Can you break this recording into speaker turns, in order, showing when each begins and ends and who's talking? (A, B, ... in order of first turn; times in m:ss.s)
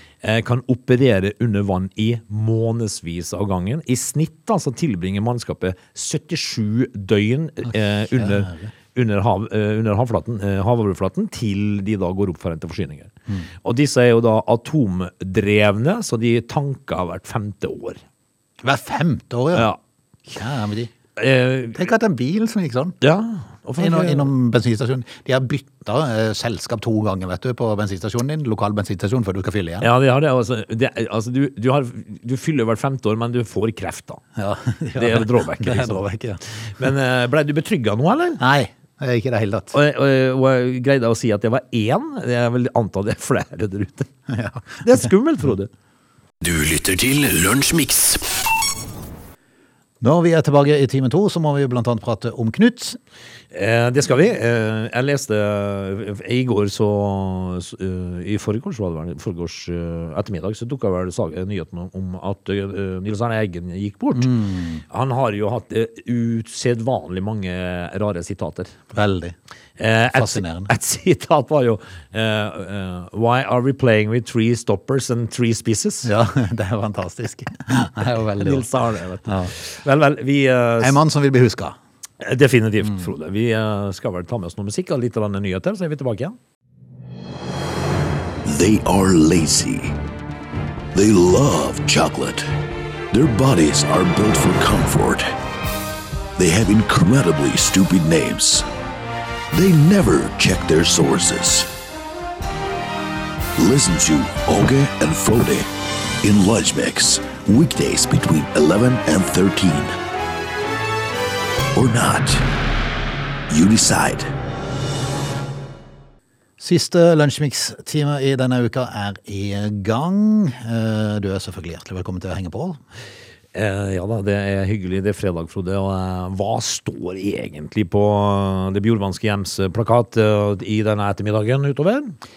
0:00.2-0:13.1 A
0:08.2-0:08.7 B
0:13.6-0:18.0 A
0:18.6-0:19.7 B
0:19.5-0:19.8 A
0:20.3-0:20.9 B
0:21.2-0:21.8 A
0:21.7-0:23.0 B
0:23.0-0:24.3 A
0:23.8-0:29.9 B
0:29.8-0:34.2 A
0:34.4-0:36.4 B
0:35.0-0:36.0 A
0:36.8-0:38.4 A
0:38.4-0:39.8 B
0:39.7-0:44.1 A
0:44.3-0:45.0 B
0:44.8-0:45.7 A
0:46.4-0:48.3 C
0:50.0-0:53.0 B
0:53.5-1:04.3 A
1:04.2-1:04.8 B
1:04.9-1:08.7 A
1:08.9-1:09.3 B
1:09.8-1:16.1 A
1:10.1-1:10.7 B
1:16.0-1:18.6 B
1:18.4-1:21.0 A
1:19.3-1:19.5 B
1:20.8-1:21.8 B
1:22.2-1:26.4 A
1:28.4-1:30.0 C
1:30.9-1:32.5 C
1:33.1-1:35.3 C
1:36.4-1:38.6 C
1:39.5-1:41.7 C
1:43.6-1:45.7 C
1:46.2-1:49.9 C
1:51.7-1:52.4 C
1:53.5-1:54.3 C
1:56.6-2:02.8 B
2:03.5-2:12.1 A